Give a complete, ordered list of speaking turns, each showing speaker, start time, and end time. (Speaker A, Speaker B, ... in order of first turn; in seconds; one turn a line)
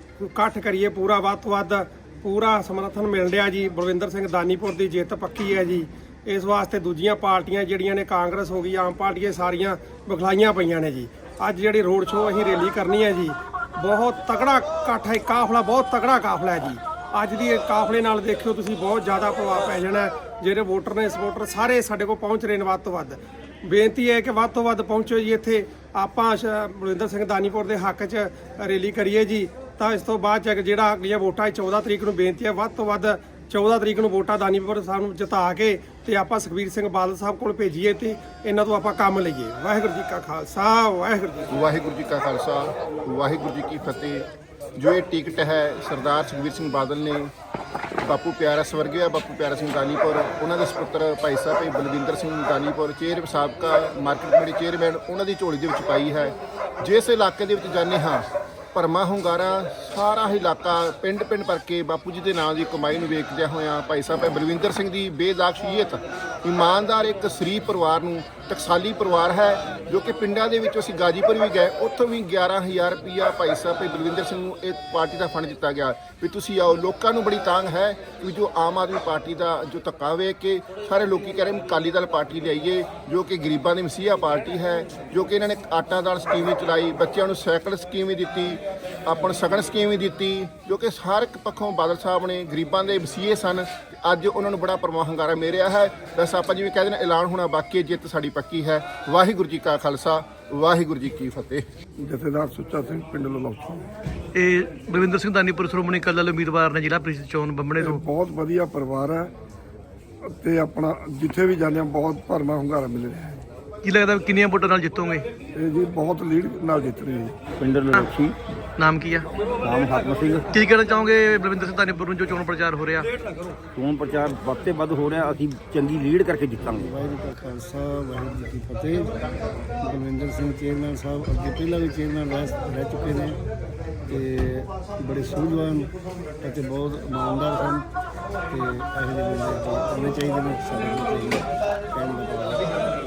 Speaker A: 0.2-41.4
Speaker B: 41.5-47.3
Speaker B: 48.0-101.7
Speaker C: 102.0-103.8
Speaker D: 104.3-108.0
Speaker C: 107.8-109.3
Speaker C: 110.2-113.4
Speaker D: 113.8-115.3
Speaker C: 115.5-117.4
Speaker E: 117.6-118.3
Speaker D: 118.8-119.3
Speaker E: 119.6-120.5
Speaker D: 120.5-123.1
Speaker E: 123.8-126.9
Speaker F: 126.9-129.1
Speaker F: 129.8-133.4
Speaker F: 134.1-135.9
Speaker F: 136.4-137.8
Speaker F: 138.5-142.6